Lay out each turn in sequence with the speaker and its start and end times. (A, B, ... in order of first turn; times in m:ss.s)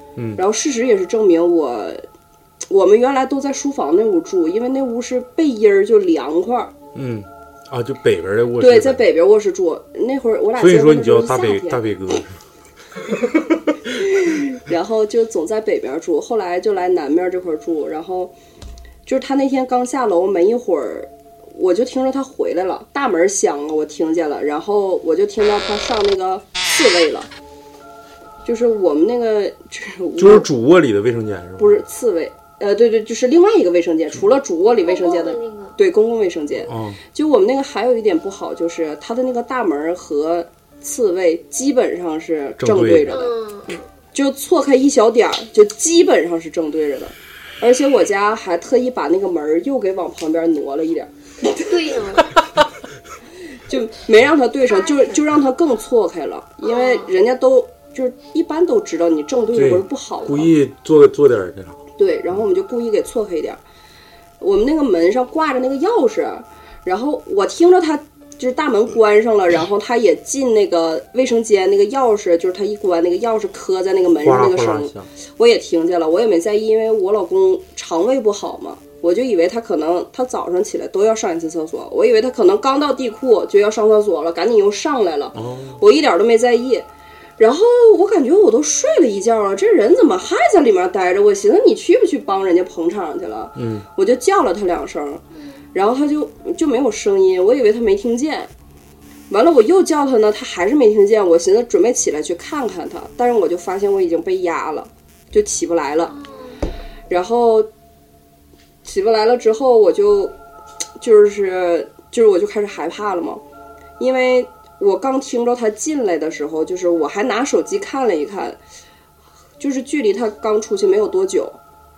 0:00.2-0:00.4 A
0:00.4-0:02.0 B
0:02.7-0:06.7 B
0:06.9-0:09.0 A
0:08.6-0:11.8 B
0:10.6-0:12.4 A
0:13.1-0:13.9 A
0:13.9-0:18.3 B
0:19.0-0:27.3 B
0:28.4-0:30.5 B
0:30.2-0:31.8 A
0:31.6-0:43.3 B
0:34.8-0:35.8 C
0:36.7-0:37.0 A
0:42.6-0:43.2 A
0:43.1-0:43.8 C
0:44.1-0:52.0 B
0:51.6-0:52.4 C
0:53.7-1:00.6 B
0:54.7-0:55.2 C
0:56.6-0:57.1 C
0:59.5-1:01.8 A
1:02.0-1:03.6 B
1:04.4-1:26.9 B
1:14.2-1:15.1 A
1:25.3-1:25.8 A
1:27.4-1:35.2 B
1:33.6-1:33.8 A
1:35.3-1:35.6 C
1:35.7-1:38.5 B
1:39.3-1:46.1 B
1:46.0-1:46.6 C
1:47.1-1:47.7 B
1:48.8-1:50.3 B
1:51.0-1:53.4 B
1:54.0-1:58.6 B
1:59.6-2:01.6 B